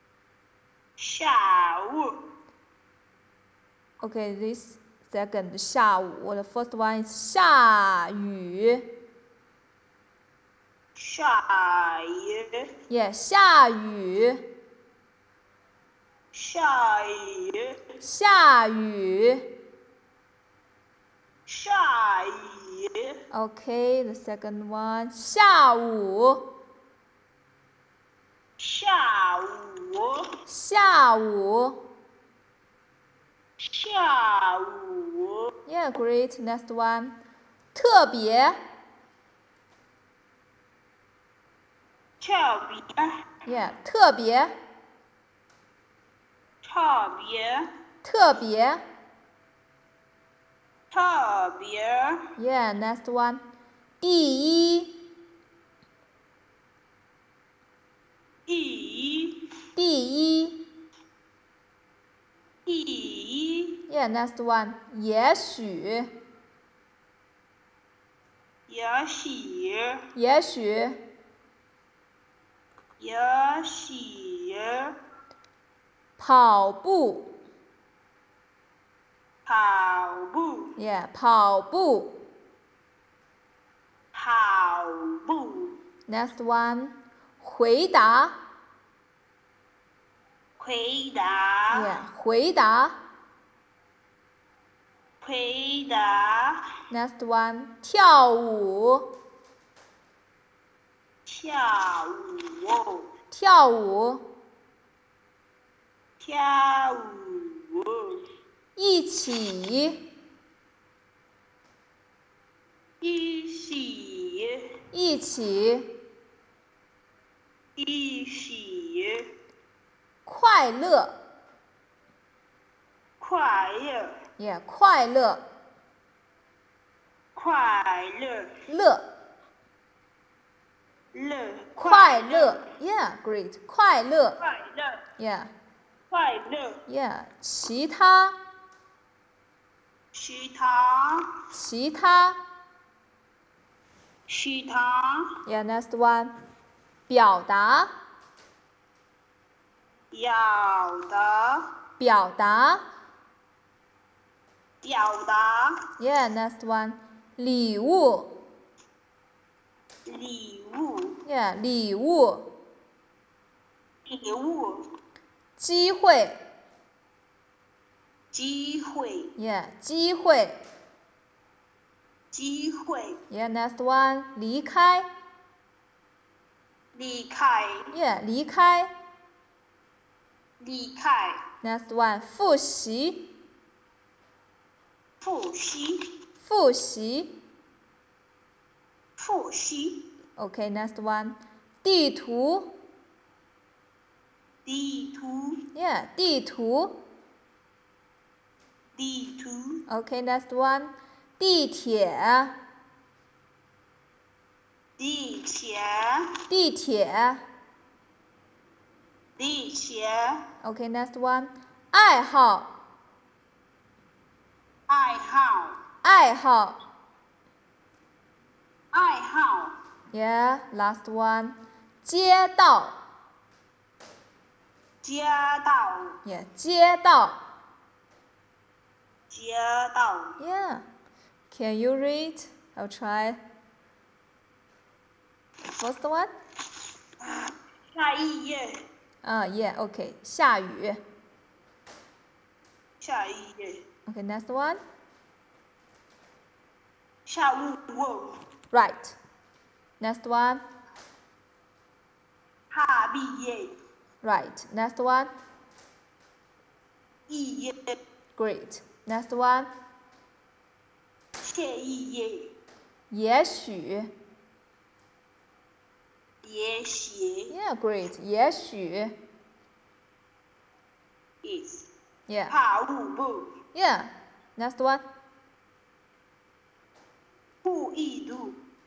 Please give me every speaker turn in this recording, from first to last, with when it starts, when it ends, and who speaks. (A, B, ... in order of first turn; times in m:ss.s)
0:01.0-0:02.2 A
0:04.0-0:08.9 B
0:11.0-0:12.7 A
0:12.9-0:14.5 B
0:16.3-0:17.8 A
0:18.0-0:19.5 B
0:21.5-0:23.2 A
0:23.3-0:26.5 B
0:28.6-0:30.3 A
0:30.5-0:31.8 B
0:33.6-0:35.5 A
0:35.7-0:37.2 B
0:37.7-0:38.6 B
0:42.2-0:43.1 A
0:43.5-0:44.5 B
0:46.6-0:47.7 A
0:48.0-0:48.8 B
0:50.9-0:52.3 A
0:52.4-0:53.4 B
0:54.0-0:55.0 B
0:58.5-0:59.4 A
0:59.8-1:00.6 B
1:02.7-1:03.8 A
1:03.9-1:06.1 B
1:08.7-1:10.1 A
1:10.2-1:11.0 B
1:13.0-1:15.0 A
1:16.2-1:17.3 B
1:19.5-1:20.8 A
1:20.8-1:22.2 B
1:24.1-1:25.8 A
1:26.1-1:28.4 B
1:30.6-1:32.0 A
1:31.7-1:33.0 B
1:35.2-1:36.7 A
1:36.9-1:39.1 B
1:41.2-1:43.1 A
1:43.3-1:44.3 B
1:46.2-1:48.2 A
1:48.8-1:50.1 B
1:53.0-1:54.8 A
1:54.9-1:55.9 B
1:57.8-1:59.3 A
2:00.2-2:01.2 B
2:03.2-2:04.2 A
2:04.4-2:05.4 B
2:07.4-2:08.6 A
2:08.7-2:09.1 B
2:11.1-2:12.7 A
2:11.8-2:14.4 B
2:14.4-2:15.0 A
2:15.2-2:15.5 B
2:16.1-2:16.8 A
2:16.9-2:18.4 B
2:20.1-2:21.3 A
2:21.5-2:22.4 B
2:24.3-2:25.3 A
2:25.5-2:26.3 B
2:27.1-2:27.9 B
2:30.1-2:31.7 A
2:32.0-2:32.8 B
2:34.8-2:35.8 A
2:36.0-2:38.4 B
2:40.1-2:41.2 A
2:41.2-2:42.5 B
2:44.1-2:44.9 A
2:45.6-2:46.4 B
2:48.3-2:49.4 A
2:49.4-2:50.6 B
2:52.3-2:53.2 A
2:53.3-2:55.1 B
2:56.9-2:57.9 A
2:57.9-2:58.9 B
3:00.6-3:01.4 A
3:01.6-3:03.3 B
3:05.2-3:06.1 A
3:06.4-3:07.4 B
3:09.2-3:10.1 A
3:10.4-3:12.8 B
3:14.6-3:15.6 A
3:15.7-3:17.0 B
3:19.0-3:19.8 A
3:19.9-3:22.6 B
3:25.0-3:26.3 A
3:26.5-3:27.4 B
3:29.4-3:30.5 A
3:30.6-3:32.7 B
3:34.9-3:35.8 A
3:36.0-3:36.8 B
3:38.9-3:39.8 A
3:40.1-3:43.0 B
3:45.0-3:46.2 A
3:46.2-3:47.4 B
3:49.3-3:50.4 A
3:50.4-3:50.9 B
3:51.5-3:53.4 B
3:55.8-3:56.3 B
3:57.2-3:58.8 A
3:59.2-4:01.0 B
4:03.0-4:03.8 A
4:04.1-4:04.8 B
4:07.2-4:08.4 A
4:08.7-4:09.2 B
4:10.0-4:10.6 B
4:12.7-4:13.8 A
4:14.2-4:15.3 B
4:17.3-4:18.0 A
4:18.4-4:19.7 B
4:21.4-4:22.5 A
4:23.1-4:24.1 B
4:26.4-4:27.5 A
4:27.5-4:29.2 B
4:31.4-4:31.9 A
4:32.3-4:32.5 B
4:32.5-4:33.6 A
4:33.7-4:35.0 B
4:37.6-4:38.6 A